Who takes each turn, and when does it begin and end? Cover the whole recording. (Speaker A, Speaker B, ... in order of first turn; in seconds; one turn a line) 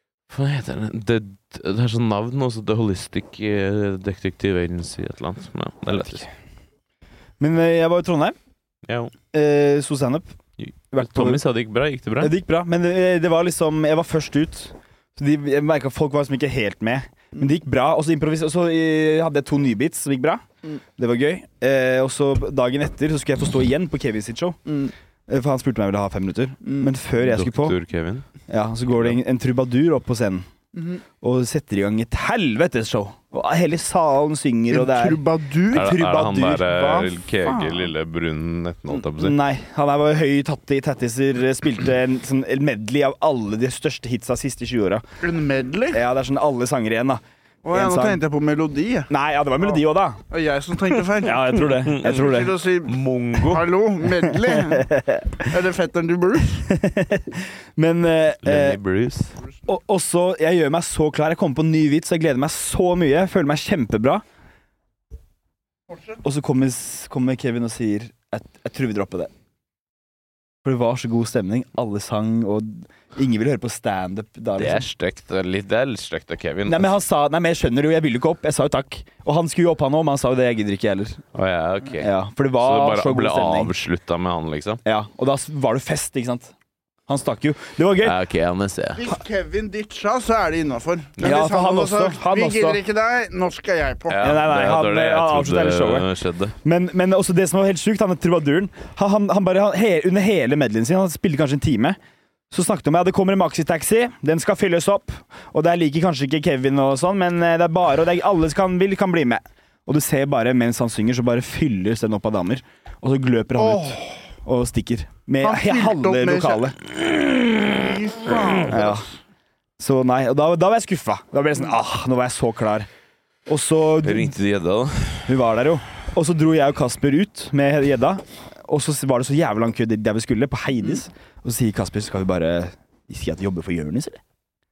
Speaker A: 0.3-6.3
Speaker B: 5.9-6.2
Speaker B: 7.4-8.3
Speaker A: 8.9-9.1
Speaker B: 9.3-10.4
Speaker A: 10.6-12.3
Speaker B: 10.9-11.4
Speaker B: 12.2-27.8
Speaker C: 24.7-24.9
Speaker C: 26.6-26.9
Speaker A: 27.2-28.2
Speaker B: 28.5-30.4
Speaker C: 30.7-31.0
Speaker B: 31.2-35.2
Speaker C: 34.7-36.0
Speaker B: 35.7-36.9
Speaker A: 35.7-39.4
Speaker C: 36.7-37.9
Speaker B: 39.2-45.0
Speaker C: 45.2-46.0
Speaker B: 45.9-47.2
Speaker C: 47.6-49.1
Speaker B: 47.7-48.2
Speaker B: 49.1-50.2
Speaker C: 50.3-51.5
Speaker B: 51.2-52.6
Speaker A: 51.5-53.7
Speaker C: 52.0-54.9
Speaker B: 54.3-55.5
Speaker C: 55.4-56.7
Speaker B: 56.7-58.8
Speaker A: 58.4-59.4
Speaker B: 59.6-64.2
Speaker B: 66.2-69.3
Speaker B: 70.6-74.8
Speaker A: 74.6-76.9
Speaker B: 76.7-81.2
Speaker A: 81.3-84.8
Speaker B: 82.0-83.7
Speaker B: 84.8-86.5
Speaker B: 87.1-88.2
Speaker A: 88.0-89.1
Speaker C: 89.0-94.2
Speaker B: 91.2-92.8
Speaker A: 94.1-96.5
Speaker B: 94.2-96.1
Speaker B: 96.6-102.0
Speaker B: 102.5-116.8
Speaker C: 113.5-114.3
Speaker C: 115.4-116.8
Speaker C: 117.5-119.2
Speaker B: 118.7-119.1
Speaker B: 119.8-122.9
Speaker B: 123.5-124.3
Speaker A: 124.0-125.3
Speaker B: 125.2-134.2